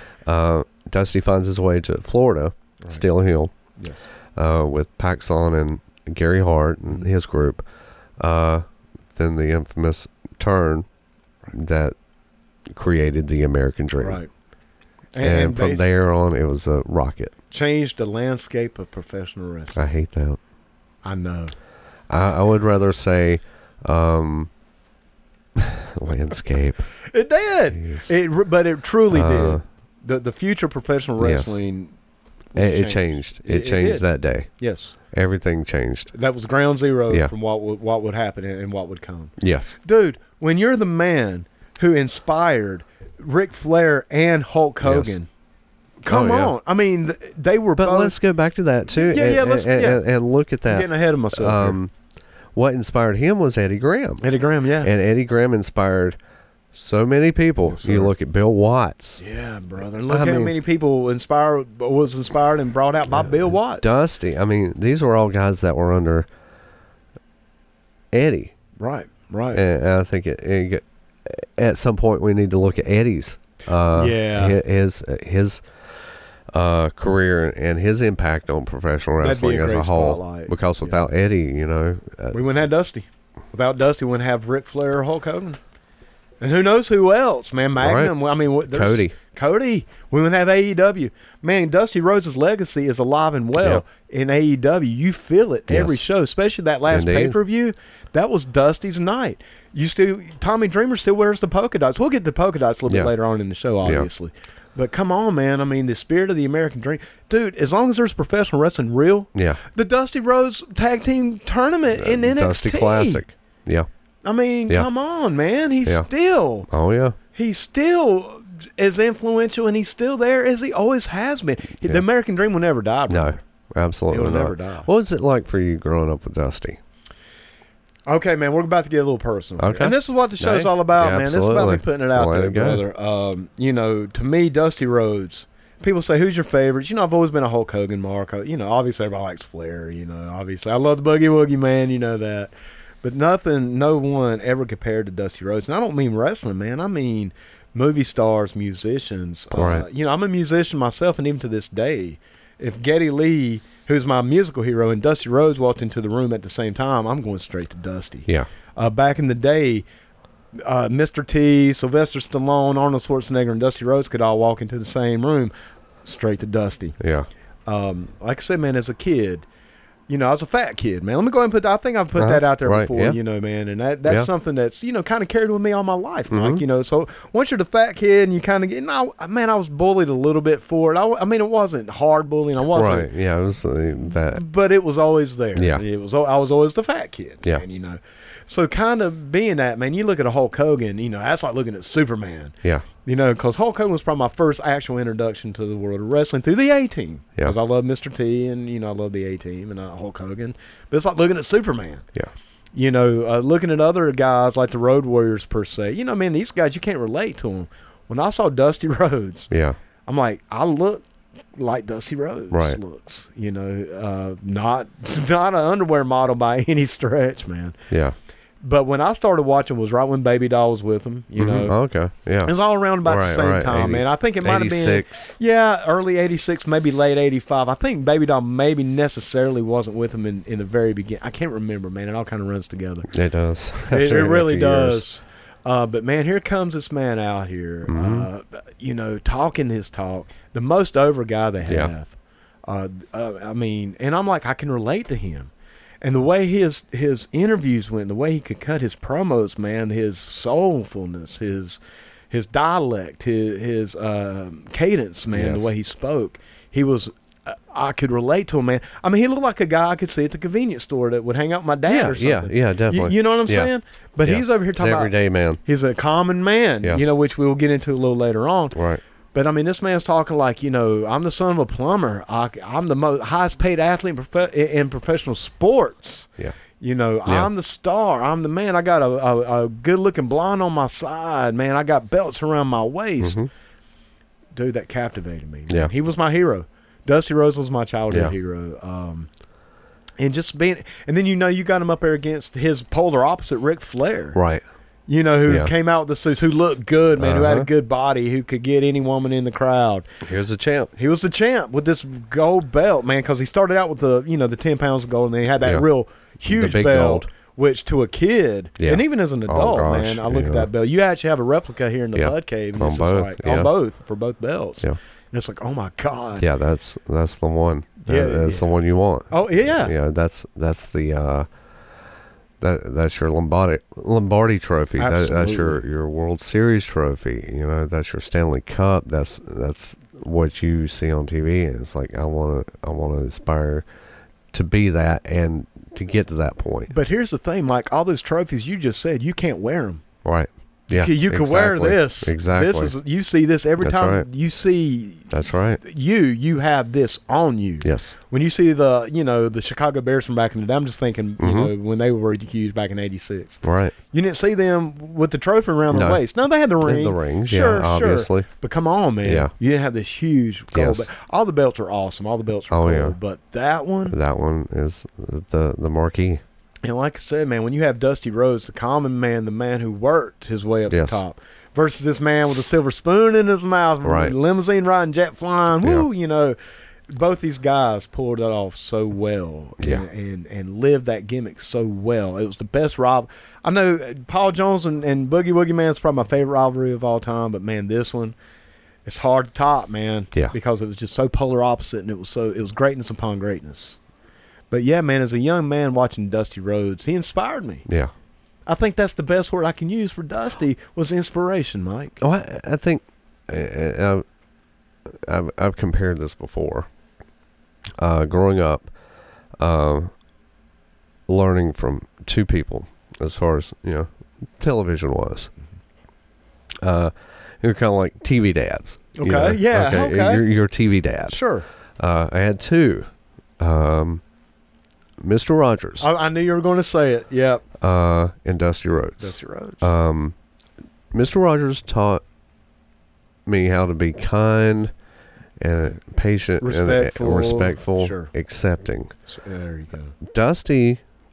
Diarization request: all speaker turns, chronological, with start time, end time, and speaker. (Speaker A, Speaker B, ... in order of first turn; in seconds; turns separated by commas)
Speaker A: 0.2-3.5, Speaker B: 3.8-4.1, Speaker A: 4.3-7.6, Speaker A: 8.2-10.8, Speaker A: 11.5-11.9, Speaker A: 12.7-14.2, Speaker B: 14.0-14.3, Speaker B: 15.1-15.9, Speaker A: 15.2-17.3, Speaker B: 17.5-19.8, Speaker A: 19.7-20.4, Speaker B: 21.0-21.5, Speaker A: 22.1-24.5, Speaker A: 25.6-26.9, Speaker B: 27.1-31.9, Speaker A: 27.7-28.1, Speaker A: 29.1-29.6, Speaker A: 31.2-31.6, Speaker B: 32.5-34.9, Speaker A: 32.5-34.5, Speaker A: 35.1-36.1, Speaker B: 36.1-45.3, Speaker A: 39.4-39.7, Speaker A: 44.8-45.1, Speaker B: 46.0-48.1, Speaker A: 46.1-46.5, Speaker A: 47.8-51.9, Speaker B: 48.9-50.0, Speaker B: 50.7-51.8, Speaker A: 52.5-54.2, Speaker B: 54.2-54.9, Speaker A: 54.8-56.2, Speaker A: 56.7-59.2, Speaker B: 57.6-58.1, Speaker B: 59.2-63.9, Speaker A: 60.1-60.5, Speaker A: 63.1-66.3, Speaker A: 68.1-68.5, Speaker B: 68.8-69.6, Speaker A: 69.5-75.6, Speaker B: 73.9-74.6, Speaker A: 76.5-82.4, Speaker B: 79.2-81.1, Speaker B: 82.3-85.6, Speaker B: 86.4-113.2, Speaker A: 87.8-88.1, Speaker A: 88.7-89.2, Speaker A: 93.6-93.8, Speaker A: 95.7-96.0, Speaker A: 96.9-97.4, Speaker A: 109.3-109.6, Speaker A: 112.0-113.9, Speaker B: 114.2-116.7, Speaker A: 116.7-117.2, Speaker B: 117.3-123.4, Speaker A: 123.1-126.8, Speaker B: 124.1-124.9, Speaker B: 128.1-159.8, Speaker A: 129.6-132.8, Speaker A: 149.5-149.9, Speaker B: 160.5-165.5, Speaker B: 166.0-166.9, Speaker A: 167.0-167.3, Speaker B: 167.7-169.4, Speaker B: 170.1-183.1, Speaker A: 172.2-173.2, Speaker A: 176.3-176.6, Speaker A: 182.7-184.4, Speaker B: 184.3-202.1, Speaker A: 185.5-185.8, Speaker B: 202.7-209.5, Speaker A: 209.5-209.8, Speaker B: 210.1-211.0, Speaker B: 211.5-217.8, Speaker A: 212.5-212.8, Speaker A: 217.9-218.1, Speaker B: 218.6-221.8, Speaker A: 221.4-225.3, Speaker B: 222.4-233.1, Speaker A: 233.1-235.0, Speaker B: 233.9-242.1, Speaker A: 237.9-238.3, Speaker A: 241.7-241.9, Speaker B: 242.7-245.5, Speaker B: 246.0-251.8, Speaker B: 252.3-265.1, Speaker A: 255.3-255.7, Speaker A: 261.9-263.7, Speaker A: 264.2-265.6, Speaker B: 265.6-268.8, Speaker A: 268.7-269.0, Speaker B: 269.3-283.4, Speaker A: 283.2-283.5, Speaker B: 284.5-289.3, Speaker B: 290.2-294.4, Speaker A: 294.3-294.6, Speaker B: 295.1-300.1, Speaker A: 295.5-295.7, Speaker A: 297.2-297.7, Speaker A: 300.2-300.9, Speaker B: 300.9-316.5, Speaker A: 306.4-307.3, Speaker A: 308.8-310.7, Speaker A: 312.1-313.7, Speaker A: 316.4-321.5, Speaker B: 318.0-318.7, Speaker B: 319.3-319.9, Speaker A: 322.6-333.8, Speaker B: 325.0-325.8, Speaker A: 334.5-336.9, Speaker B: 336.9-340.0, Speaker A: 340.2-342.9, Speaker B: 340.9-364.1, Speaker A: 343.8-344.3, Speaker A: 345.3-345.8, Speaker A: 347.8-348.1, Speaker A: 351.4-351.7, Speaker A: 353.6-353.9, Speaker A: 355.9-356.2, Speaker A: 356.8-358.5, Speaker A: 359.2-359.5, Speaker A: 360.7-361.1, Speaker A: 362.7-363.1, Speaker A: 364.1-366.4, Speaker B: 366.8-376.6, Speaker A: 370.9-371.2, Speaker A: 374.0-374.3, Speaker B: 377.1-388.4, Speaker A: 379.8-380.0, Speaker B: 389.0-394.0, Speaker B: 394.7-397.8, Speaker A: 397.9-398.1, Speaker B: 398.6-402.2, Speaker A: 402.2-404.2, Speaker A: 405.1-406.9, Speaker A: 408.0-408.9, Speaker A: 409.6-410.1, Speaker A: 411.3-415.5, Speaker A: 416.8-421.4, Speaker B: 419.1-420.4, Speaker B: 421.3-421.6, Speaker A: 422.0-424.2, Speaker A: 425.2-426.1, Speaker B: 426.0-427.6, Speaker A: 427.8-430.3, Speaker B: 429.2-429.9, Speaker A: 431.1-432.2, Speaker A: 433.4-434.9, Speaker A: 435.6-439.1, Speaker B: 436.6-438.3, Speaker B: 439.3-440.1, Speaker A: 440.2-441.0